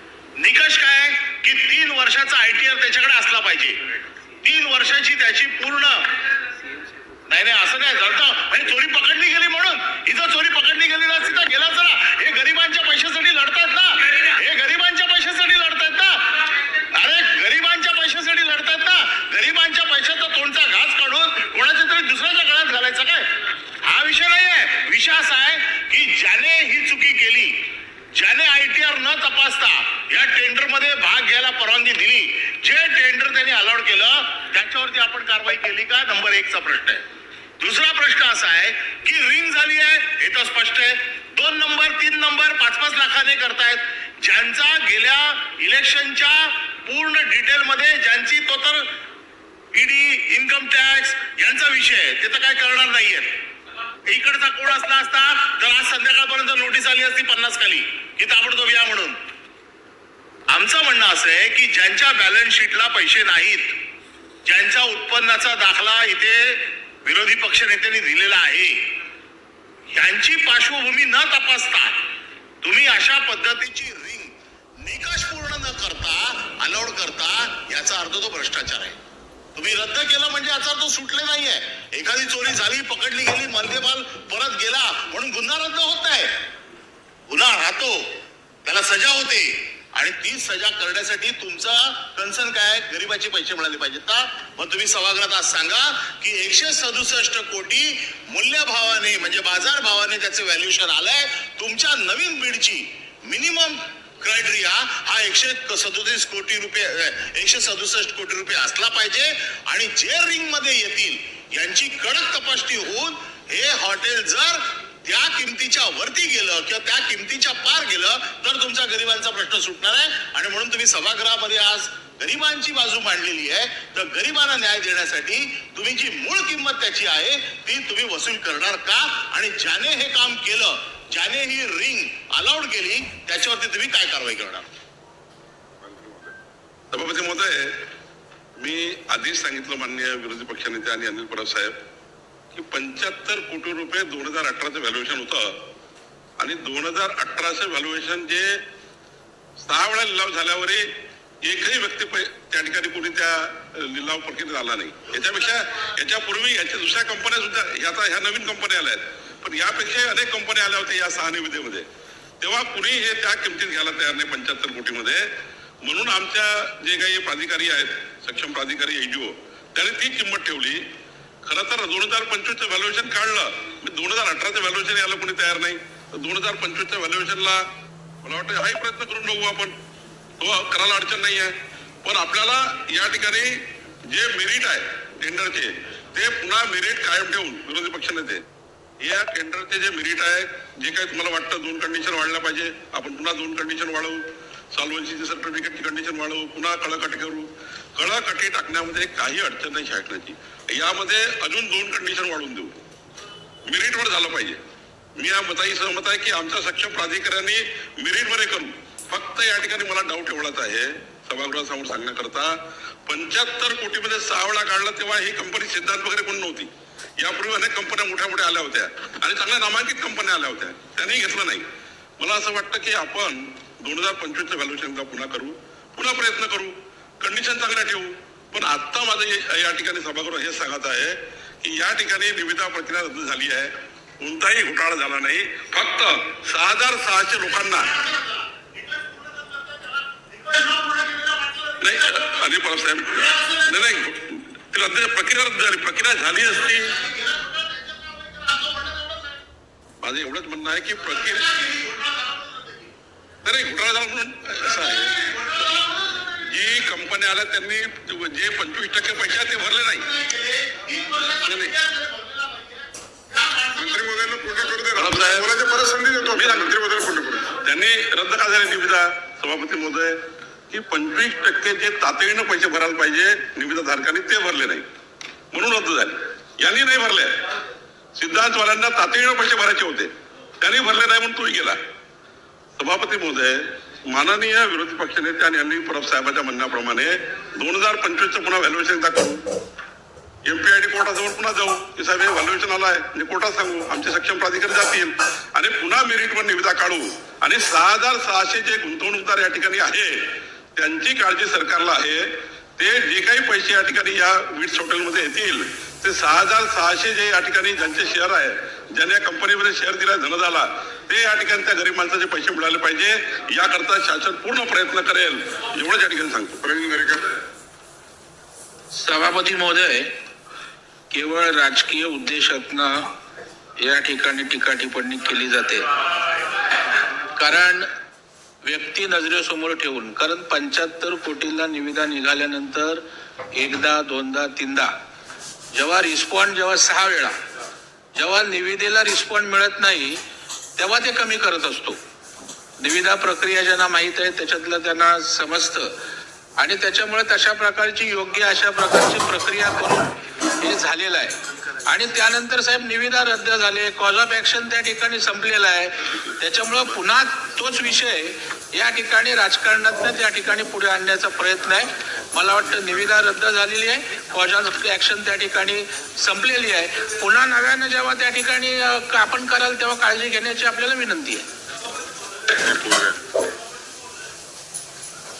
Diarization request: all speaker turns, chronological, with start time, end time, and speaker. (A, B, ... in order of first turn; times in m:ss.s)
0:00.4-0:03.8 A
0:04.4-0:06.0 A
0:07.3-0:16.4 A
0:16.9-0:23.3 A
0:23.8-0:27.6 A
0:28.1-0:37.0 A
0:37.6-0:48.9 A
0:49.7-0:53.3 A
0:54.0-0:59.2 A
1:00.5-1:03.8 A
1:04.4-1:08.8 A
1:09.9-1:12.0 A
1:12.6-1:14.3 A
1:14.8-1:19.0 A
1:19.5-1:26.3 A
1:27.3-2:14.6 A
2:15.8-2:16.3 B
2:16.9-2:17.8 C
2:18.6-2:21.7 C
2:22.5-2:25.6 C
2:26.4-2:28.6 C
2:29.6-2:30.9 C
2:31.4-2:41.8 C
2:42.4-2:45.3 C
2:45.8-2:50.8 C
2:51.4-2:57.6 C
2:58.2-2:59.7 C
3:00.4-3:08.4 C
3:09.0-3:14.2 C
3:14.7-3:22.8 C
3:23.6-3:24.6 C
3:25.2-3:32.5 C
3:33.0-3:41.6 C
3:42.2-3:57.9 C
3:57.9-4:02.5 A
4:01.8-4:06.9 C
4:03.1-4:04.0 A
4:06.7-4:09.4 A
4:10.0-4:11.5 C
4:11.2-4:12.9 A
4:13.4-4:15.2 C
4:14.8-4:16.7 A
4:16.5-4:20.1 C
4:19.9-4:24.0 A
4:21.4-4:21.7 C
4:23.8-4:27.5 B
4:24.9-4:25.5 C
4:26.3-4:26.7 C
4:27.6-4:30.2 C
4:30.7-4:34.8 C
4:35.5-4:37.4 C
4:38.2-4:41.8 C
4:42.8-4:49.4 C
4:50.4-5:00.2 C
5:00.7-5:16.6 C
5:16.6-5:17.3 B
5:19.0-5:20.1 D
5:21.1-5:23.0 D
5:23.8-5:25.8 D
5:27.4-5:27.8 D
5:28.6-5:33.0 D
5:33.5-5:34.9 D
5:35.7-5:37.3 D
5:38.2-5:40.2 D
5:40.8-5:42.0 D
5:42.8-5:45.9 D
5:46.6-6:11.5 D
6:12.5-6:13.2 B